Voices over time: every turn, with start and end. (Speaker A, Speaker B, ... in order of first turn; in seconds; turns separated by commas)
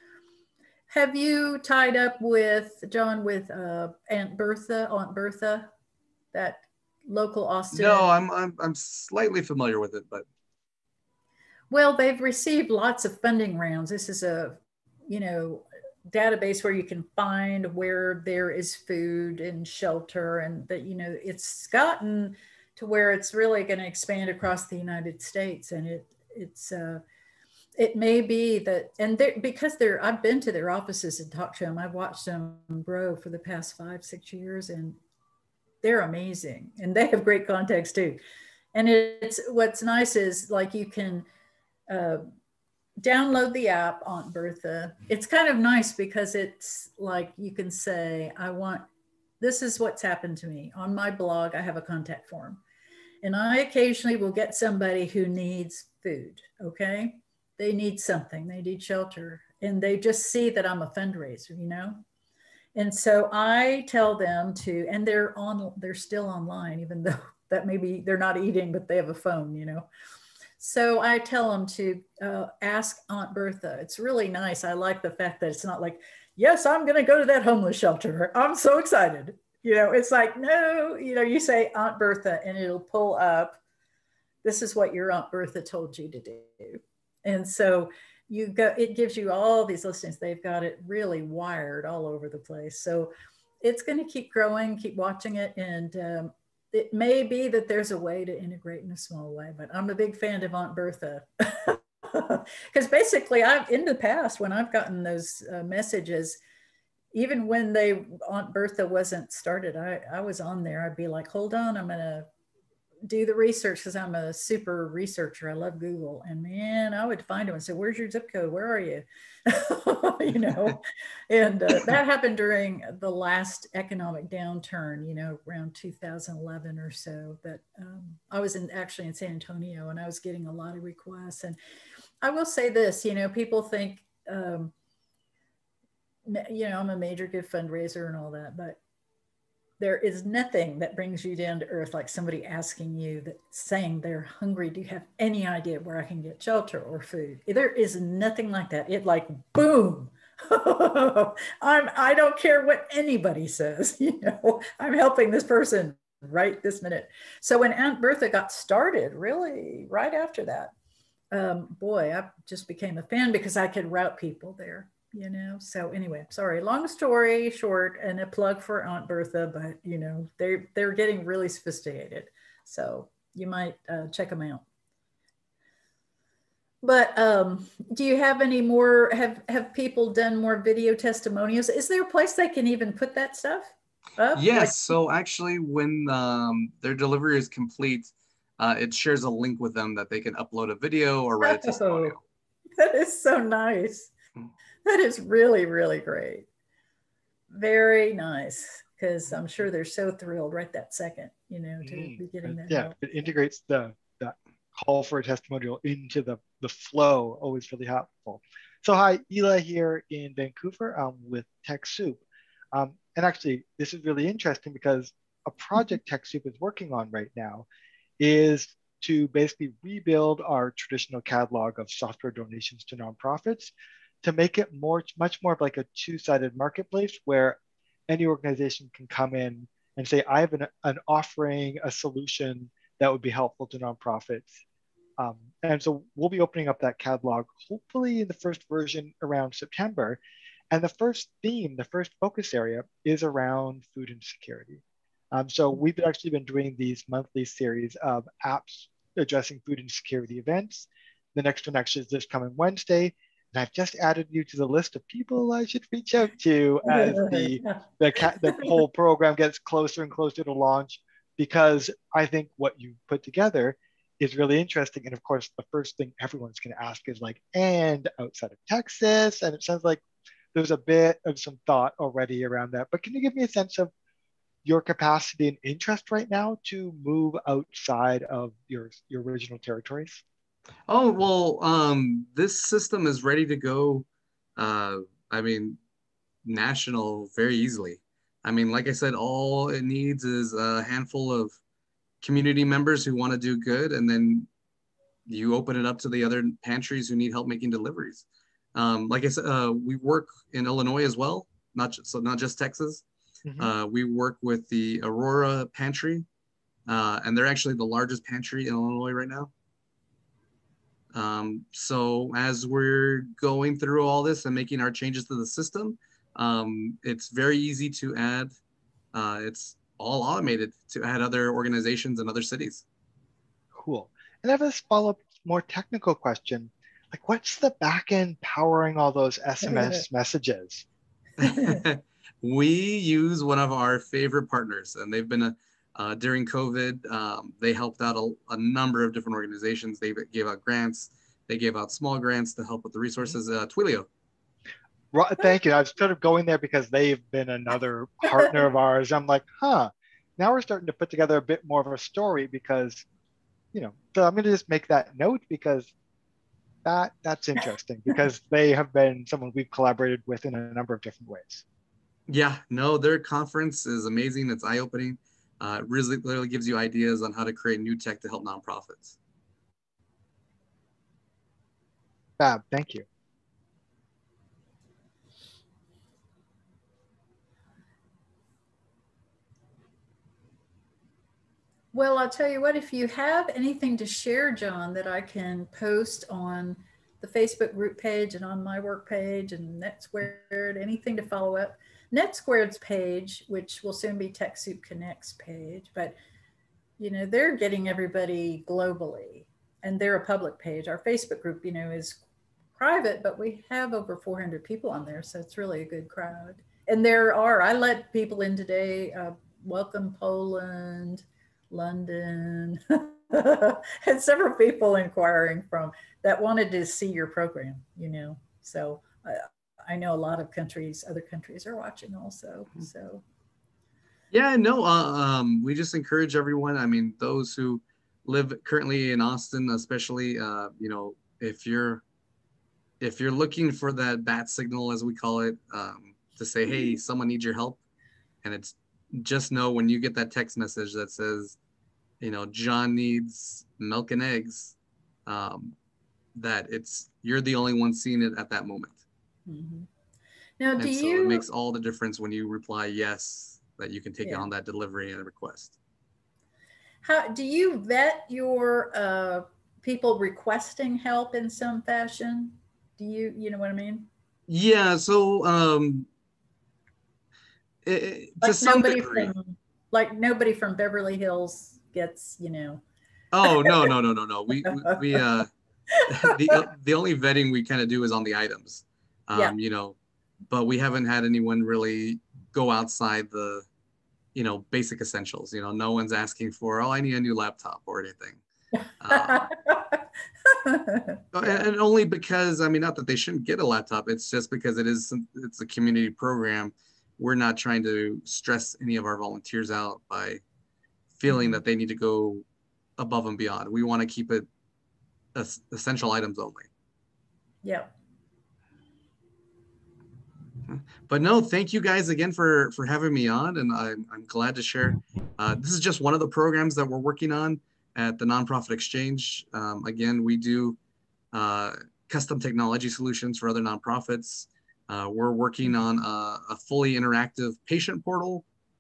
Speaker A: 0.9-5.7, Speaker A: 6.3-8.2, Speaker B: 7.7-10.3, Speaker A: 11.7-27.0, Speaker A: 27.8-35.0, Speaker A: 35.8-38.2, Speaker A: 38.7-41.3, Speaker A: 41.9-42.2, Speaker A: 43.0-48.9, Speaker A: 49.4-52.6, Speaker A: 53.2-62.0, Speaker A: 62.8-69.9, Speaker A: 70.6-83.6, Speaker A: 84.4-106.4, Speaker A: 107.1-112.3, Speaker A: 113.1-131.6, Speaker A: 132.2-134.7, Speaker A: 136.3-138.8, Speaker A: 139.8-160.7, Speaker A: 161.3-174.6, Speaker A: 176.8-185.0, Speaker B: 184.3-192.2, Speaker A: 191.4-192.2, Speaker A: 192.8-194.1, Speaker A: 194.8-196.5, Speaker A: 197.5-203.0, Speaker C: 201.8-217.7, Speaker C: 218.2-234.6, Speaker C: 235.2-240.2, Speaker C: 240.7-244.8, Speaker C: 245.3-270.0, Speaker A: 256.9-257.8, Speaker C: 270.5-273.9, Speaker C: 274.6-280.2, Speaker B: 280.9-284.1, Speaker B: 284.6-285.8, Speaker B: 286.4-291.6, Speaker B: 292.2-294.5, Speaker B: 295.3-303.0, Speaker C: 303.4-303.7, Speaker B: 303.6-306.3, Speaker B: 306.9-309.5, Speaker B: 311.1-318.6, Speaker B: 319.1-322.9, Speaker C: 323.7-330.9, Speaker B: 331.4-344.1, Speaker A: 331.4-331.8, Speaker C: 345.1-353.1, Speaker C: 353.7-355.9, Speaker C: 356.9-361.6, Speaker B: 362.3-369.2, Speaker C: 372.4-373.1, Speaker A: 381.9-396.2, Speaker A: 397.0-402.2, Speaker A: 402.8-423.2, Speaker B: 424.3-432.0, Speaker B: 433.0-437.8, Speaker B: 438.4-441.6, Speaker B: 442.2-444.8, Speaker B: 445.3-445.8, Speaker B: 446.4-449.0, Speaker A: 449.5-449.9, Speaker A: 450.6-451.4, Speaker B: 450.8-455.8, Speaker A: 454.2-454.5, Speaker A: 457.0-464.1, Speaker B: 464.5-466.1, Speaker B: 467.9-469.4, Speaker A: 468.4-472.8, Speaker B: 473.3-475.5, Speaker A: 473.4-473.9, Speaker A: 474.6-475.2, Speaker A: 475.9-476.6, Speaker B: 476.1-480.0, Speaker B: 480.5-483.7, Speaker B: 484.4-488.4, Speaker A: 488.8-491.6, Speaker B: 489.0-489.5, Speaker B: 491.3-500.4, Speaker B: 501.2-502.4, Speaker A: 501.3-501.6, Speaker B: 503.0-504.5, Speaker B: 505.3-506.7, Speaker A: 507.6-507.9, Speaker B: 510.7-520.8, Speaker B: 521.3-528.5